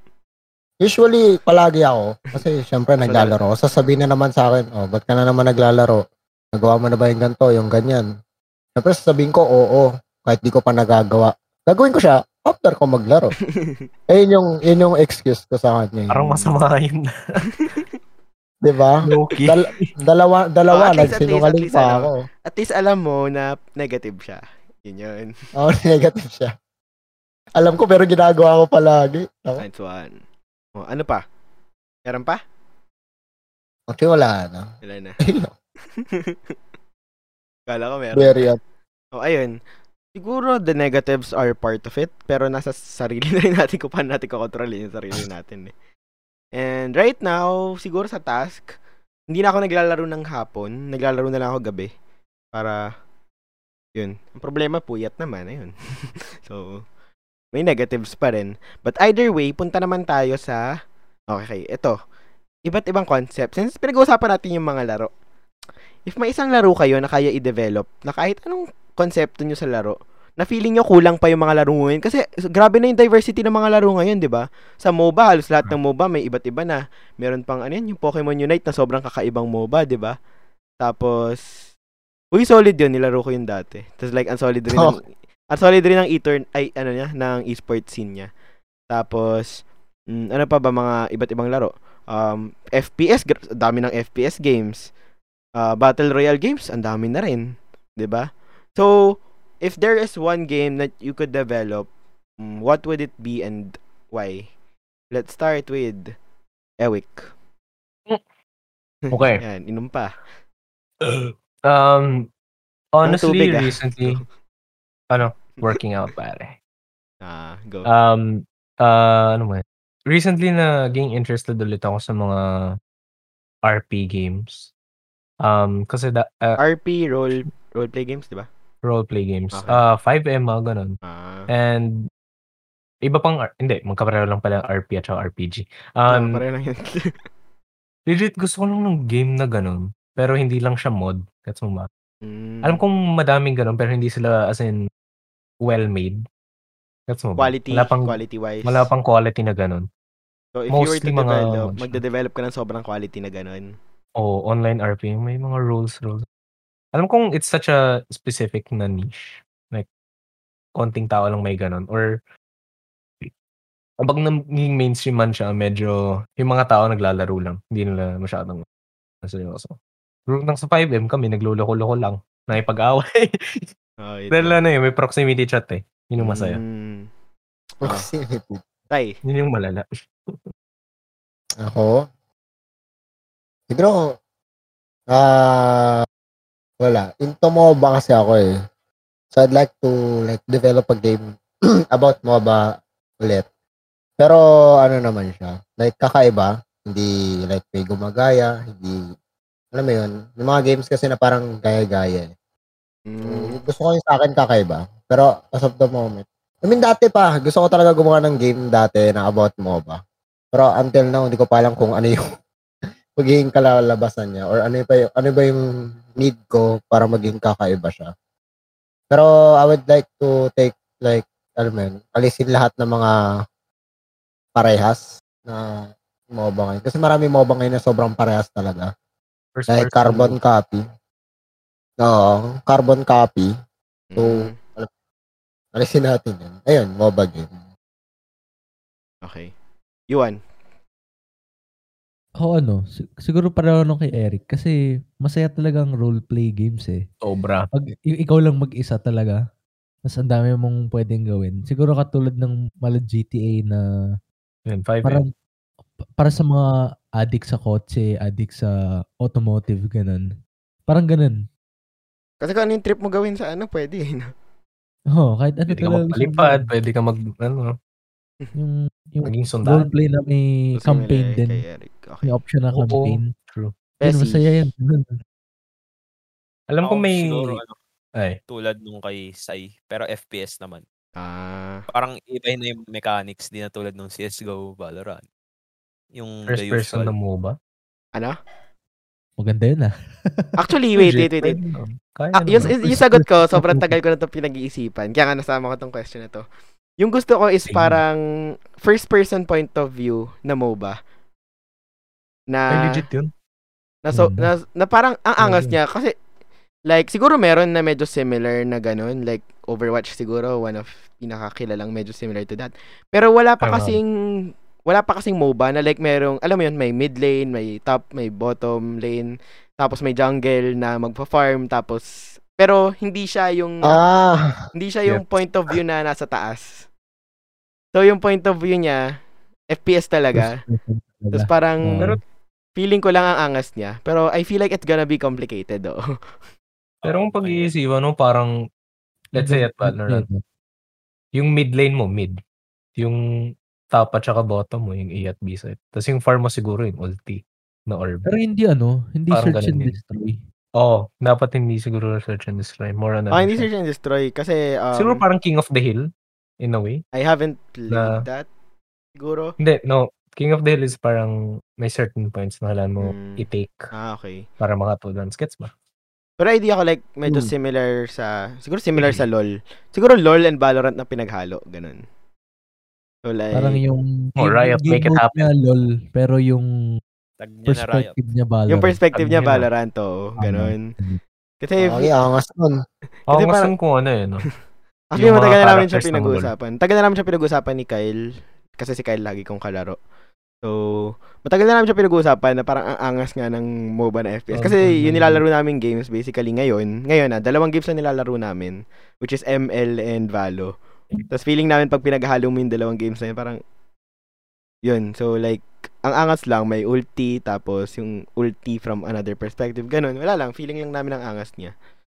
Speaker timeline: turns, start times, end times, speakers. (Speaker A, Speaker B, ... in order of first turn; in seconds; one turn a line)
Speaker A: 0.8-6.0
Speaker B: 3.0-3.3
Speaker A: 6.5-8.1
Speaker A: 8.8-13.3
Speaker B: 13.6-13.9
Speaker A: 14.1-16.5
Speaker C: 16.1-17.4
Speaker B: 17.6-17.8
Speaker A: 18.6-22.2
Speaker C: 19.1-19.9
Speaker B: 20.7-25.3
Speaker A: 25.6-26.5
Speaker A: 27.6-29.6
Speaker B: 29.6-30.2
Speaker B: 30.8-31.2
Speaker B: 32.0-32.4
Speaker A: 33.9-34.7
Speaker B: 34.8-35.2
Speaker A: 35.2-35.5
Speaker B: 36.0-36.5
Speaker B: 37.7-38.4
Speaker A: 38.1-38.6
Speaker B: 39.1-39.6
Speaker B: 40.1-45.7
Speaker B: 46.5-48.8
Speaker B: 49.3-51.9
Speaker B: 52.5-52.9
Speaker B: 54.0-56.8
Speaker B: 57.5-60.7
Speaker B: 61.3-62.0
Speaker B: 62.6-65.1
Speaker B: 66.0-80.2
Speaker B: 80.8-81.5
Speaker B: 82.3-88.3
Speaker A: 84.7-85.0
Speaker B: 88.9-94.9
Speaker B: 95.5-101.9
Speaker B: 102.4-104.5
Speaker B: 105.1-106.2
Speaker B: 106.8-107.3
Speaker B: 109.1-110.2
Speaker C: 109.1-109.4
Speaker C: 111.0-112.3
Speaker C: 112.9-114.2
Speaker B: 113.0-114.2
Speaker C: 115.1-116.5
Speaker B: 117.2-117.9
Speaker C: 117.8-122.4
Speaker C: 123.7-124.7
Speaker C: 125.4-126.6
Speaker B: 126.6-128.5
Speaker C: 128.8-131.0
Speaker B: 129.5-129.8
Speaker B: 131.0-131.5
Speaker C: 131.5-132.0
Speaker C: 133.1-136.4
Speaker B: 136.1-137.1
Speaker C: 138.1-141.9
Speaker B: 142.2-142.8
Speaker C: 142.6-144.8
Speaker C: 145.6-146.2
Speaker C: 147.1-148.1
Speaker B: 147.4-148.9
Speaker C: 148.6-149.8
Speaker B: 150.5-153.8
Speaker C: 150.7-152.0
Speaker C: 154.2-156.2
Speaker C: 156.9-159.9
Speaker C: 160.8-162.1
Speaker C: 164.0-168.6
Speaker C: 169.2-169.8
Speaker C: 170.3-173.6
Speaker B: 174.0-174.6
Speaker C: 174.3-176.6
Speaker B: 176.2-177.1
Speaker A: 177.8-178.6
Speaker B: 178.9-179.2
Speaker C: 179.2-180.4
Speaker A: 181.6-182.0
Speaker A: 183.7-184.1
Speaker A: 185.1-186.0
Speaker A: 186.8-188.5
Speaker A: 189.3-191.2
Speaker A: 191.9-193.4
Speaker A: 194.2-199.0
Speaker A: 199.7-202.3
Speaker B: 203.1-203.6
Speaker A: 203.2-210.0
Speaker A: 210.5-212.2
Speaker A: 213.2-215.6
Speaker A: 216.2-218.1
Speaker A: 219.1-223.1
Speaker A: 224.6-228.9
Speaker C: 229.5-230.4
Speaker A: 229.7-230.8
Speaker A: 232.0-233.5
Speaker B: 234.1-234.6
Speaker A: 234.2-234.9
Speaker A: 235.7-237.6
Speaker B: 239.2-239.5
Speaker B: 240.1-240.4
Speaker D: 242.4-247.0
Speaker C: 247.2-247.7
Speaker D: 247.7-249.4
Speaker D: 250.1-253.8
Speaker C: 254.7-255.2
Speaker D: 255.0-255.3
Speaker D: 256.2-256.6
Speaker D: 257.2-260.2
Speaker D: 260.9-261.4
Speaker B: 262.4-264.3
Speaker D: 265.1-266.7
Speaker C: 265.7-267.7
Speaker D: 268.5-271.6
Speaker C: 269.2-269.9
Speaker B: 270.7-272.3
Speaker D: 272.2-273.3
Speaker C: 272.7-273.7
Speaker B: 274.0-274.5
Speaker D: 274.0-275.2
Speaker C: 276.7-277.6
Speaker E: 276.8-277.8
Speaker E: 278.5-280.8
Speaker B: 281.2-281.8
Speaker E: 281.9-285.2
Speaker E: 286.1-287.1
Speaker C: 286.5-287.6
Speaker D: 289.4-290.5
Speaker B: 290.6-291.6
Speaker C: 291.0-292.8
Speaker B: 292.3-296.4
Speaker D: 293.6-293.8
Speaker B: 297.0-298.2
Speaker C: 297.7-298.0
Speaker B: 298.7-301.0
Speaker B: 302.5-303.0
Speaker C: 302.7-303.3
Speaker B: 304.0-306.1
Speaker D: 304.1-304.5
Speaker C: 305.4-305.7
Speaker B: 306.9-324.0
Speaker C: 313.6-314.0
Speaker A: 323.8-324.6
Speaker B: 324.7-326.8
Speaker B: 327.9-329.1
Speaker B: 329.7-330.6
Speaker D: 330.3-332.2
Speaker B: 331.3-332.1
Speaker B: 332.8-336.0
Speaker E: 337.0-337.7
Speaker C: 337.0-338.5
Speaker D: 339.3-340.4
Speaker C: 339.3-340.2
Speaker C: 341.3-342.4
Speaker C: 343.9-348.3
Speaker D: 348.2-350.4
Speaker C: 349.3-349.9
Speaker C: 350.8-353.7
Speaker B: 353.3-355.2
Speaker C: 354.9-356.1
Speaker C: 356.6-357.0
Speaker B: 357.1-358.5
Speaker C: 357.9-358.2
Speaker B: 359.1-359.6
Speaker C: 359.6-363.8
Speaker B: 363.0-364.4
Speaker C: 364.6-365.7
Speaker B: 366.4-372.0
Speaker A: 367.2-367.5
Speaker B: 373.2-373.8
Speaker D: 373.5-376.7
Speaker C: 374.4-375.4
Speaker E: 377.4-378.1
Speaker D: 377.6-379.0
Speaker B: 378.7-380.9
Speaker C: 379.1-379.7
Speaker D: 380.4-381.2
Speaker B: 381.6-382.1
Speaker A: 381.8-382.8
Speaker B: 383.3-383.7
Speaker C: 383.3-384.5
Speaker B: 385.1-388.2
Speaker C: 385.1-386.5
Speaker B: 388.8-390.0
Speaker B: 390.6-400.8
Speaker D: 394.9-395.4
Speaker B: 401.3-403.6
Speaker B: 404.8-411.7